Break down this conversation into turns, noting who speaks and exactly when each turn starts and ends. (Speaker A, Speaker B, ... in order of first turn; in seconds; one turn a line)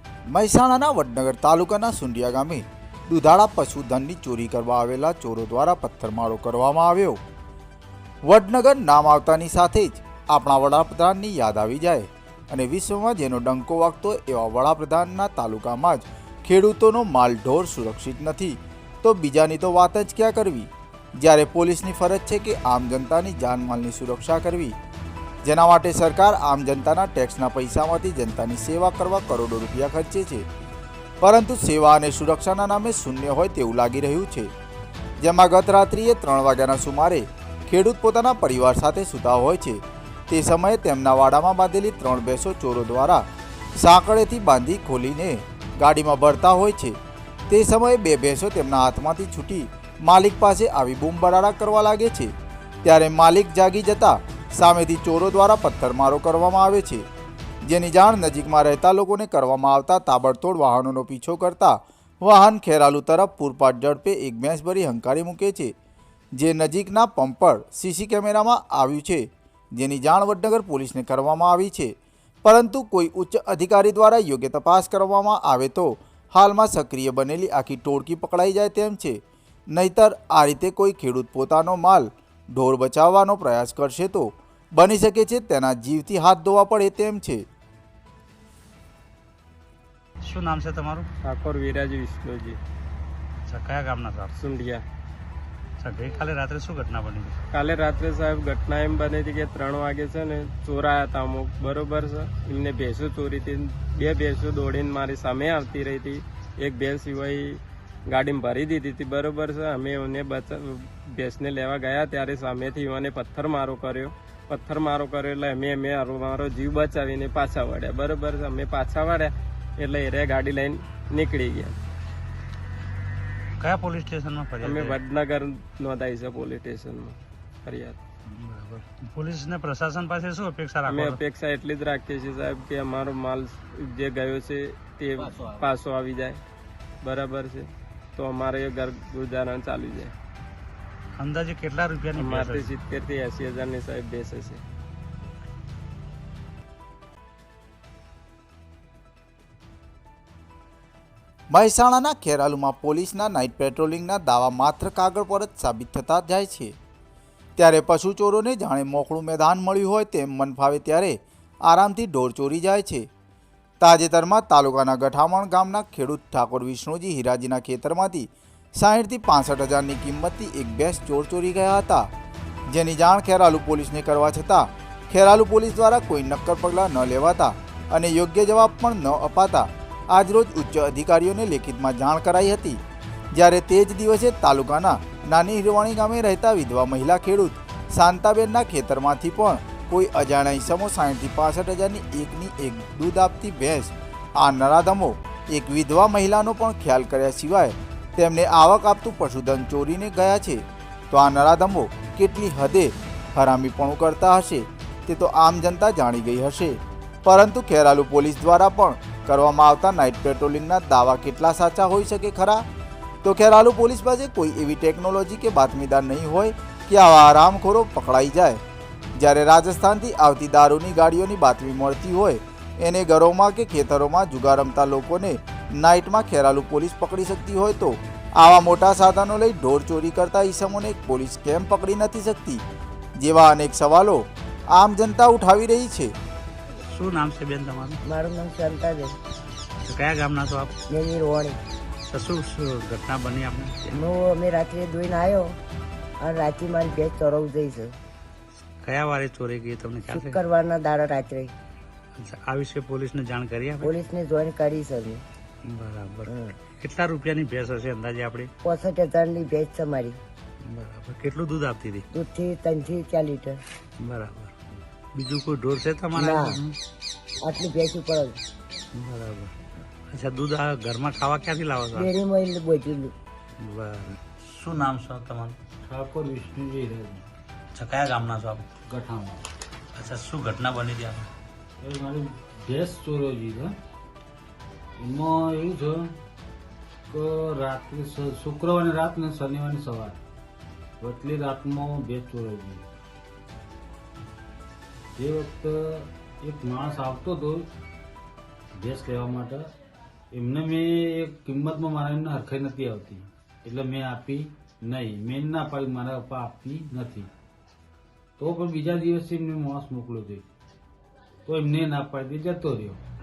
Speaker A: 0.3-7.2
Speaker A: 8.3-24.7
Speaker A: 25.4-30.4
Speaker A: 31.2-34.5
Speaker A: 35.2-43.2
Speaker A: 43.8-47.0
Speaker A: 47.5-52.3
Speaker A: 52.8-57.0
Speaker A: 57.6-65.7
Speaker A: 66.4-71.9
Speaker A: 72.4-79.2
Speaker A: 79.7-87.4
Speaker B: 90.2-91.1
Speaker C: 91.2-92.6
Speaker B: 93.5-94.3
Speaker C: 94.4-94.8
Speaker B: 95.8-97.4
Speaker C: 97.5-107.6
Speaker C: 108.1-121.8
Speaker B: 123.6-125.0
Speaker C: 124.6-128.0
Speaker B: 128.3-131.2
Speaker C: 130.9-136.4
Speaker C: 137.0-140.1
Speaker B: 141.2-142.7
Speaker C: 142.2-144.6
Speaker A: 151.5-156.7
Speaker A: 157.6-163.1
Speaker A: 163.8-172.1
Speaker A: 172.7-182.8
Speaker A: 183.3-212.6
Speaker A: 213.2-218.6
Speaker A: 219.2-232.6
Speaker A: 233.2-236.1
Speaker B: 236.8-238.0
Speaker D: 238.1-239.2
Speaker B: 239.9-240.7
Speaker D: 240.9-241.6
Speaker B: 242.1-244.1
Speaker D: 243.9-245.6
Speaker D: 246.2-248.0
Speaker B: 248.8-250.4
Speaker D: 250.1-251.5
Speaker B: 252.2-253.9
Speaker D: 253.8-255.2
Speaker B: 255.7-258.5
Speaker D: 256.3-256.6
Speaker D: 258.6-260.2
Speaker B: 260.6-262.1
Speaker D: 262.1-263.6
Speaker B: 264.0-264.5
Speaker B: 265.1-266.8
Speaker D: 266.1-266.6
Speaker D: 267.4-268.4
Speaker B: 268.9-269.5
Speaker B: 270.1-272.1
Speaker D: 271.9-273.1
Speaker B: 273.6-275.6
Speaker E: 275.9-277.2
Speaker B: 277.7-278.7
Speaker E: 278.9-279.5
Speaker B: 279.9-281.3
Speaker E: 281.8-283.8
Speaker E: 285.0-286.2
Speaker E: 287.1-290.2
Speaker E: 291.0-292.9
Speaker E: 295.2-297.7
Speaker E: 298.8-299.7
Speaker E: 300.3-307.3
Speaker E: 308.4-310.5
Speaker E: 311.5-313.0